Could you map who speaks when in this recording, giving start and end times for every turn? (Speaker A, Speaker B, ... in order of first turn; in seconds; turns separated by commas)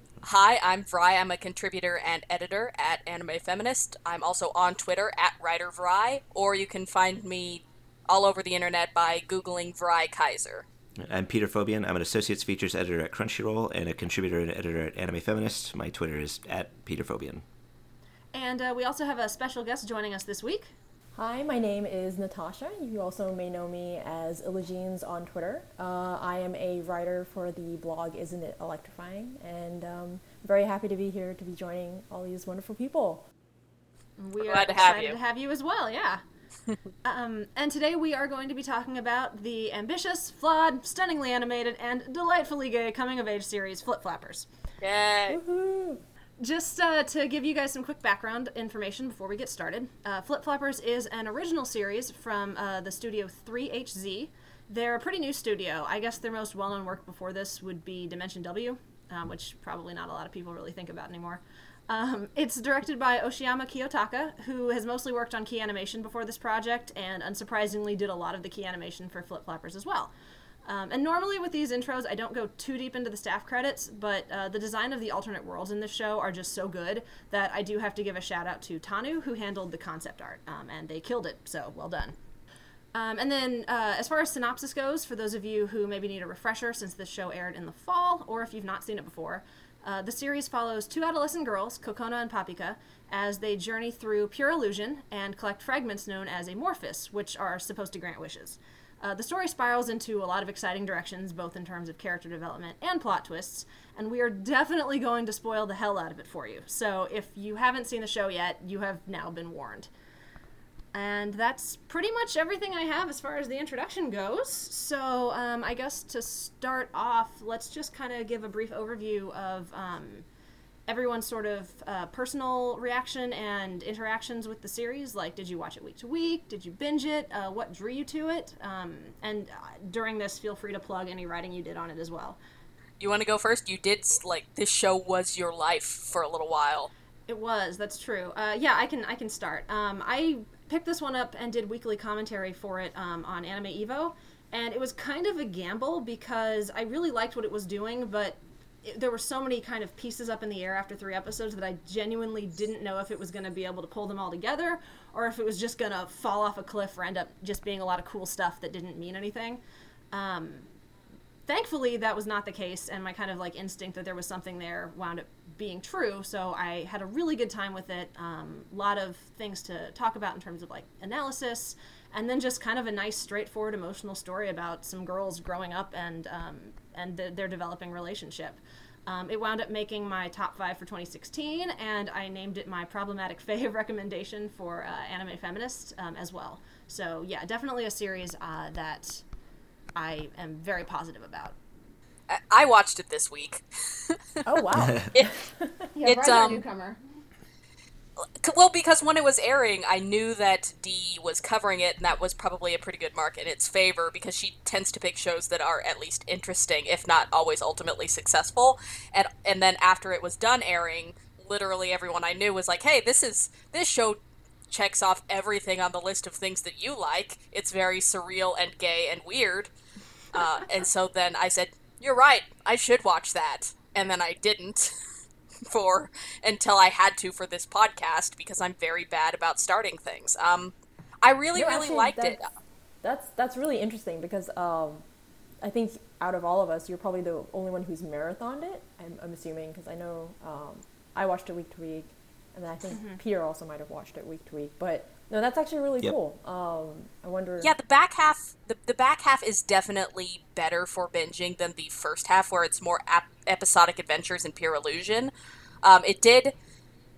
Speaker A: 0.2-10.7, Speaker B: 11.0-17.4, Speaker C: 18.3-20.7, Speaker D: 21.1-33.2, Speaker C: 34.2-36.2, Speaker A: 34.4-35.2, Speaker C: 37.0-44.5, Speaker A: 44.8-45.4, Speaker D: 45.3-46.0, Speaker C: 46.4-70.1, Speaker C: 70.6-82.2, Speaker C: 82.9-109.9, Speaker C: 110.9-120.2, Speaker C: 120.9-132.4, Speaker A: 133.0-136.9, Speaker C: 137.3-159.6, Speaker C: 160.1-160.7, Speaker C: 161.4-189.2, Speaker C: 189.9-191.6, Speaker A: 192.3-194.4, Speaker D: 194.4-195.9, Speaker C: 195.9-197.0, Speaker A: 196.0-196.6, Speaker A: 198.4-219.7, Speaker A: 220.3-224.9, Speaker A: 225.7-232.5, Speaker D: 231.5-232.5, Speaker D: 233.0-235.0, Speaker D: 235.6-247.7, Speaker C: 242.9-243.2, Speaker A: 247.6-255.3, Speaker A: 255.8-256.5